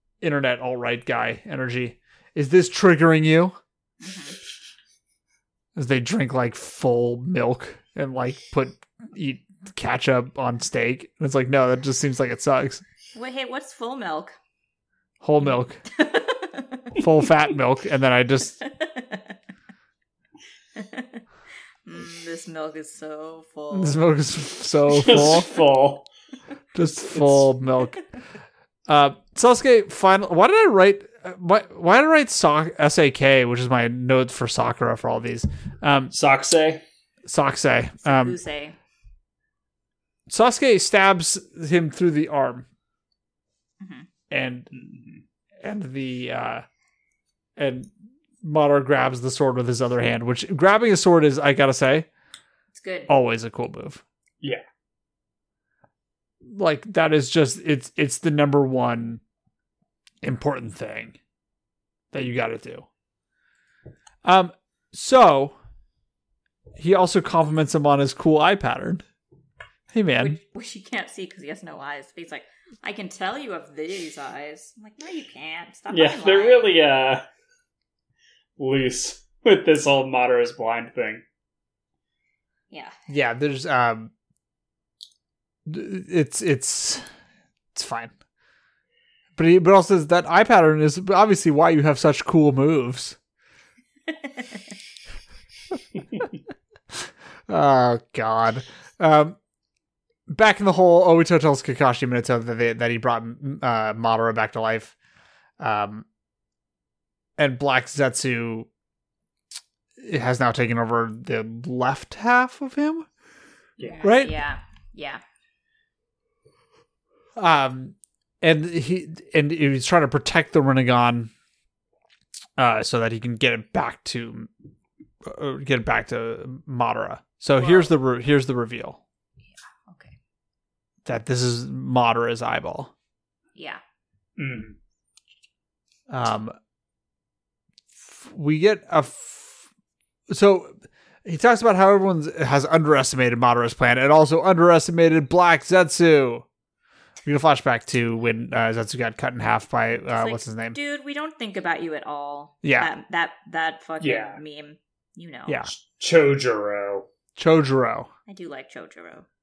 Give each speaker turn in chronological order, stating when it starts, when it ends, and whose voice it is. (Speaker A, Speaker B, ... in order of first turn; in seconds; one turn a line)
Speaker A: 0.2-3.6
Speaker B: 4.0-4.4
Speaker A: 5.8-12.8
Speaker B: 13.1-14.3
Speaker A: 15.2-15.8
Speaker B: 15.9-17.0
Speaker A: 17.0-18.6
Speaker B: 18.6-19.4
Speaker B: 20.8-21.2
Speaker B: 21.9-24.0
Speaker A: 23.7-25.5
Speaker C: 24.9-26.1
Speaker A: 26.8-28.0
Speaker C: 27.1-27.4
Speaker A: 28.9-36.1
Speaker C: 36.1-36.8
Speaker A: 37.3-38.4
Speaker B: 38.0-38.8
Speaker A: 40.3-42.7
Speaker B: 43.8-44.1
Speaker A: 44.3-44.7
Speaker C: 44.7-45.2
Speaker A: 45.6-46.6
Speaker A: 47.6-47.9
Speaker A: 48.4-52.1
Speaker B: 52.7-53.1
Speaker A: 53.1-54.0
Speaker A: 56.5-59.2
Speaker A: 60.2-61.2
Speaker A: 62.1-62.9
Speaker A: 64.2-65.5
Speaker A: 66.8-69.0
Speaker A: 69.9-70.4
Speaker B: 70.2-76.8
Speaker C: 75.9-77.2
Speaker C: 78.6-81.2
Speaker B: 82.7-83.0
Speaker A: 83.1-84.1
Speaker A: 85.7-87.1
Speaker A: 87.8-88.1
Speaker A: 89.4-93.2
Speaker B: 94.1-94.6
Speaker A: 97.5-99.4
Speaker A: 100.3-104.9
Speaker A: 105.6-106.0
Speaker A: 107.4-108.7
Speaker A: 110.0-113.1
Speaker C: 113.8-114.0
Speaker B: 113.8-115.2
Speaker A: 114.0-114.4
Speaker A: 117.4-121.3
Speaker A: 122.6-124.5
Speaker A: 125.2-129.0
Speaker B: 127.6-127.9
Speaker B: 129.5-130.2
Speaker A: 131.1-132.9
Speaker B: 133.6-133.8
Speaker C: 134.4-134.8
Speaker A: 136.1-136.6
Speaker A: 138.1-139.7
Speaker A: 140.3-146.4
Speaker A: 147.3-150.8
Speaker B: 150.1-155.6
Speaker A: 152.6-152.9
Speaker C: 154.0-154.4
Speaker A: 155.5-155.7
Speaker C: 155.7-157.1
Speaker A: 157.4-158.1
Speaker B: 158.3-159.3